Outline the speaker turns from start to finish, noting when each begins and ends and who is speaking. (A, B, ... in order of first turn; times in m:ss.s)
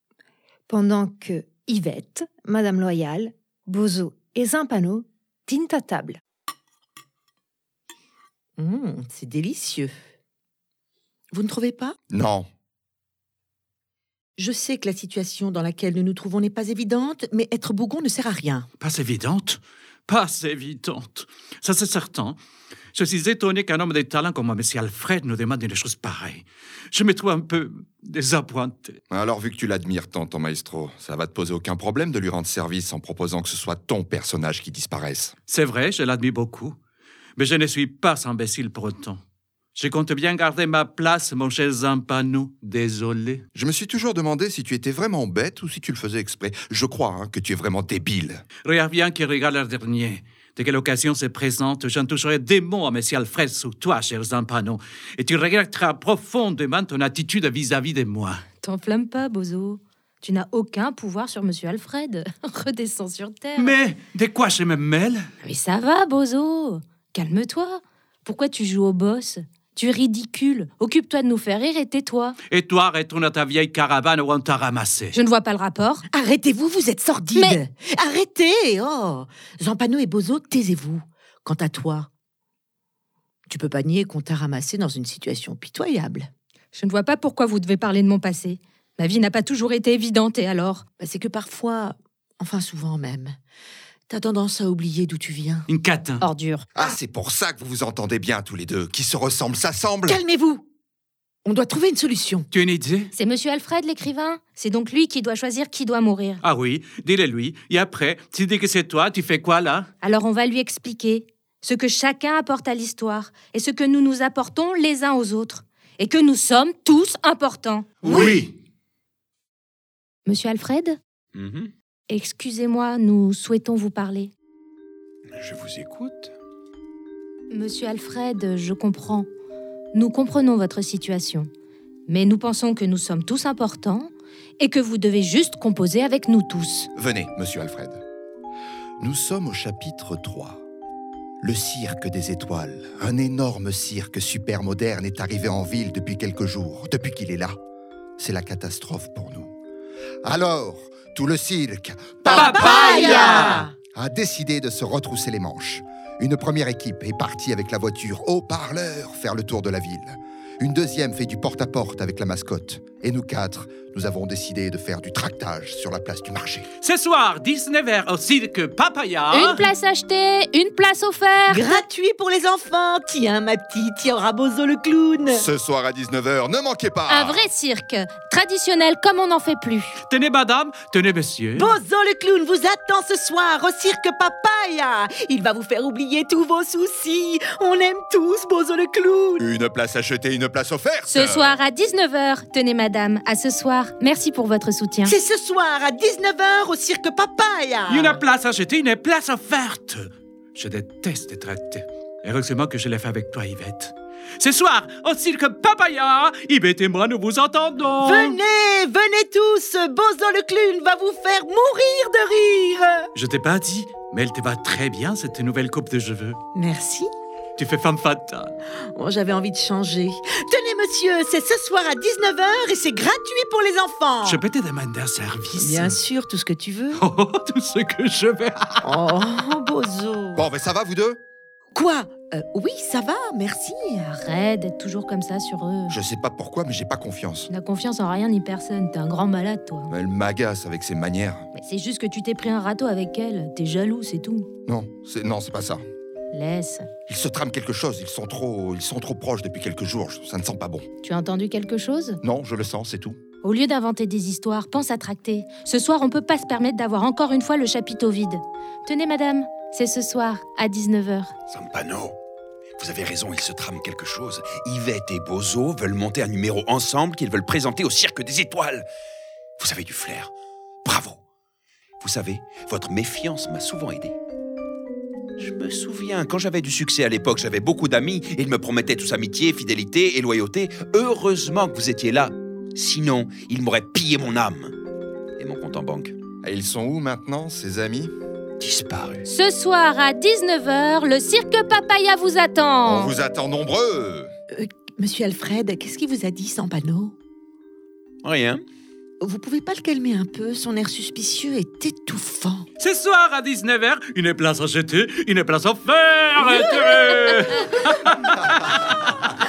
0:00.7-0:06.2 A
0:08.6-0:09.9 B
0:11.3-0:12.0 B
0:12.1-0:12.5 C
0:14.4-0:18.7 B
0:18.8-0:22.4 D
0:22.9-0:29.0 D
0:29.1-0:35.3 C
0:35.5-0:36.8 D
0:37.4-0:39.2 D
0:39.8-0:43.4 D
0:43.6-0:48.4 C
0:48.6-0:58.4 D
0:58.6-1:03.8 E
1:03.6-1:05.3 D
1:05.4-1:12.4 E
1:12.5-1:15.2 D
1:15.1-1:16.0 E
1:16.1-1:22.1 B
1:17.3-1:17.6 E
1:23.5-1:26.3 B
1:26.7-1:30.8 E
1:31.0-1:33.4 B
1:34.1-1:35.7 B
1:35.7-1:36.2 D
1:36.2-1:36.7 E
1:36.8-1:40.2 C
1:40.1-1:40.6 B
1:41.4-1:42.5 B
1:42.5-1:43.1 D
1:43.1-1:46.4 E
1:46.4-1:49.9 D
1:50.0-1:58.4 E
1:58.0-1:58.5 D
2:00.3-2:01.0 E
2:01.3-2:01.7 F
2:02.1-2:04.3 E
2:05.3-2:06.3 F
2:07.5-2:09.3 E
2:09.9-2:11.5 E
2:12.1-2:16.9 E
2:17.0-2:18.0 C
2:19.0-2:20.6 C
2:21.4-2:27.6 C
2:28.2-2:29.5 C
2:30.2-2:46.7 C
2:32.3-2:33.7 B
2:32.3-2:33.6 D
2:46.8-2:49.7 D
2:49.3-2:51.8 E
2:51.5-2:55.5 B
2:55.3-2:57.5 C
2:57.1-3:00.0 E
3:00.0-3:01.7 D
3:01.6-3:09.4 B
3:09.4-3:11.6 C
3:11.1-3:15.1 E
3:15.0-3:18.2 B
3:17.9-3:28.4 D
3:28.0-3:33.1 B
3:33.2-3:36.4 D
3:36.5-3:37.1 B
3:37.6-3:38.6 D
3:38.7-3:44.4 B
3:44.2-3:46.0 D
3:45.5-3:47.0 B
3:47.0-3:49.0 D
3:48.8-3:50.4 B
3:50.4-3:51.2 C
3:51.7-3:54.2 B
3:54.1-3:56.0 E
3:55.9-3:57.5 C
3:57.5-3:59.9 E
3:59.9-4:01.5 C
4:01.6-4:04.5 E
4:04.7-4:05.8 C
4:06.3-4:06.9 E
4:07.1-4:10.8 C
4:11.0-4:12.2 E
4:12.2-4:13.2 C
4:13.4-4:21.3 E
4:21.5-4:22.2 F
4:22.8-4:28.9 F
4:29.6-4:30.3 F
4:30.8-4:31.2 F
4:32.0-4:34.2 F
4:35.4-4:44.8 F
4:45.4-4:46.2 F
4:46.4-4:48.1 C
4:48.6-4:49.3 F
4:49.3-4:53.1 E
4:52.8-4:54.3 C
4:54.5-4:57.2 B
4:58.2-4:58.6 F
4:59.2-5:02.7 B
5:02.8-5:09.0 D